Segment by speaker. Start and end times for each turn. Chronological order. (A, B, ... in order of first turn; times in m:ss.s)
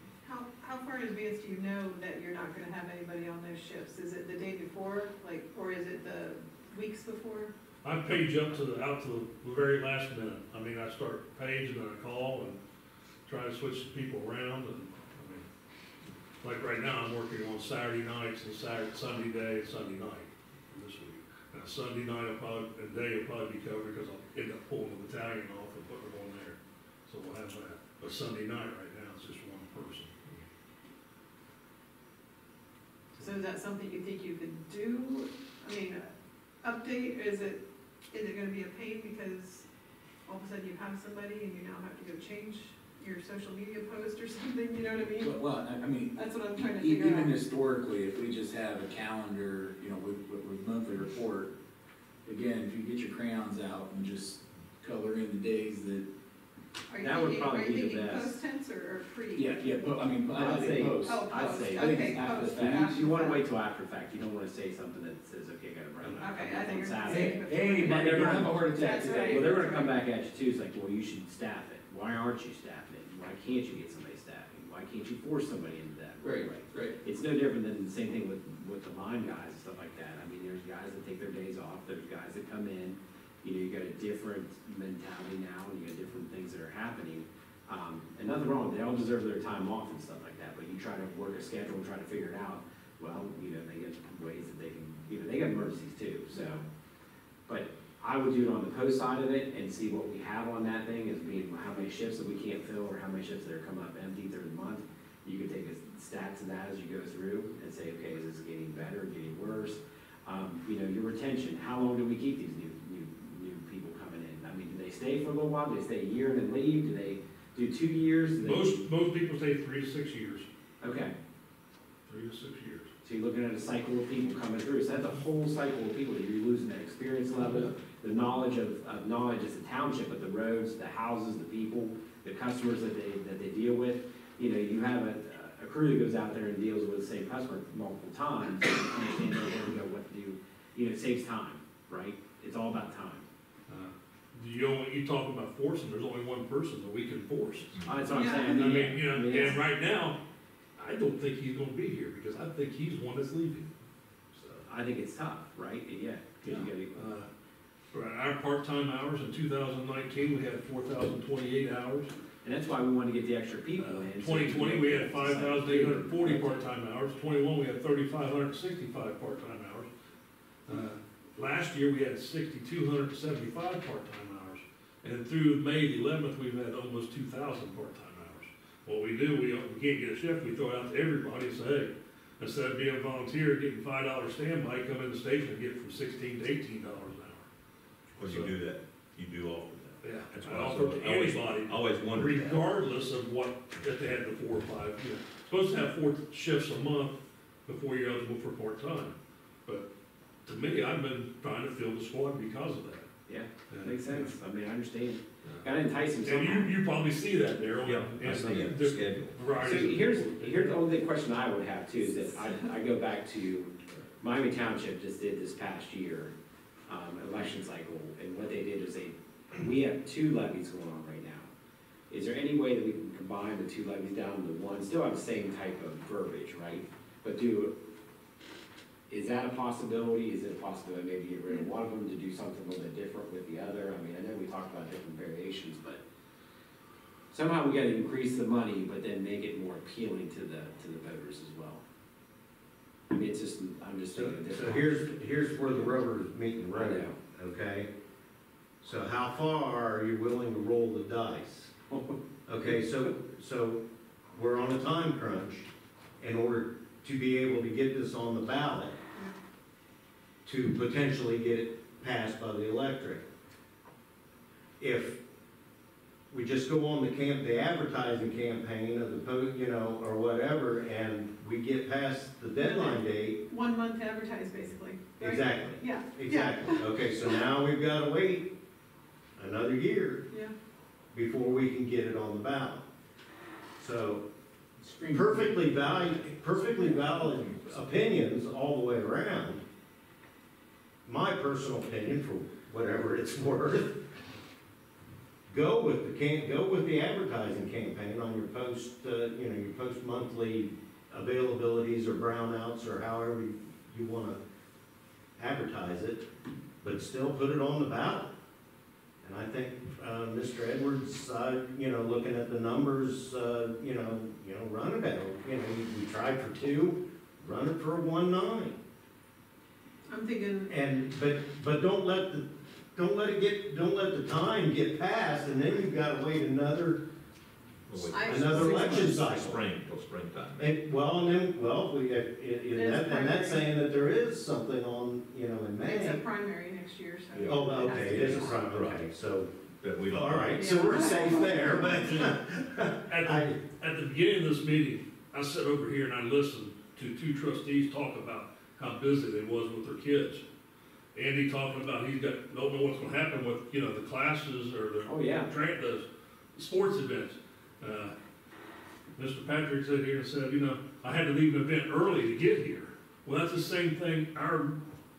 0:00.2-0:07.5 A
0:07.8-0:12.6 B
0:13.2-0:15.4 B
0:16.4-0:30.3 B
0:33.2-0:36.1 A
0:36.6-0:39.6 A
0:40.2-0:45.4 A
0:45.2-0:51.5 C
0:46.1-0:47.4 A
0:52.2-0:56.0 C
0:56.9-0:59.8 A
0:57.0-0:58.3 D
0:59.3-1:03.0 C
1:00.3-1:36.6 D
1:01.0-1:03.4 A
1:06.2-1:10.0 A
1:07.1-1:09.7 C
1:16.2-1:17.0 C
1:36.3-1:36.6 A
1:37.5-1:58.8 D
1:58.4-2:00.5 B
2:00.8-2:01.1 D
2:02.0-2:02.9 B
2:03.0-2:23.2 D
2:23.7-2:30.2 B
2:27.8-2:29.6 D
2:28.1-2:28.8 A
2:30.8-2:33.7 B
2:34.3-2:34.6 B
2:34.7-2:37.0 D
2:36.9-2:37.3 B
2:37.9-2:42.1 B
2:42.4-2:46.6 D
2:43.8-2:49.9 B
2:50.6-3:07.5 B
3:08.1-3:12.6 E
3:08.2-3:08.6 B
3:10.0-3:19.9 B
3:20.4-3:23.1 B
3:23.3-3:26.7 D
3:23.7-3:24.4 B
3:26.2-3:30.8 B
3:27.8-3:30.0 E
3:29.6-3:36.3 D
3:36.9-3:41.5 D
3:42.1-3:47.8 D
3:49.1-3:56.0 D
3:57.3-4:01.8 D
4:03.1-4:06.0 D
4:04.2-4:07.9 F
4:06.7-4:07.2 D
4:08.8-4:11.7 F
4:12.4-4:18.9 F
4:20.4-4:23.2 F
4:24.8-4:25.2 F
4:26.3-4:33.4 F
4:32.6-4:36.9 A
4:35.2-4:38.5 F
4:39.4-4:40.3 F
4:41.1-4:42.8 F
4:43.8-4:44.2 F
4:44.8-4:47.5 C
4:45.1-4:49.6 F
4:51.0-4:54.0 F
4:55.5-5:04.4 F
5:05.4-5:06.3 F
5:06.8-5:08.3 F
5:09.2-5:18.8 F
5:20.1-5:20.7 A
5:20.7-5:27.0 F
5:27.9-5:30.8 E
5:28.1-5:29.3 A
5:28.2-5:29.6 F
5:30.6-5:36.2 F
5:32.7-5:33.7 A
5:35.8-5:38.6 A
5:37.3-5:39.0 E
5:37.4-5:39.5 F
5:39.8-5:41.4 E
5:40.1-5:43.6 F
5:40.5-5:42.2 A
5:43.1-5:50.4 B
5:51.1-5:58.1 B
5:55.0-5:55.5 D
5:59.2-6:04.8 B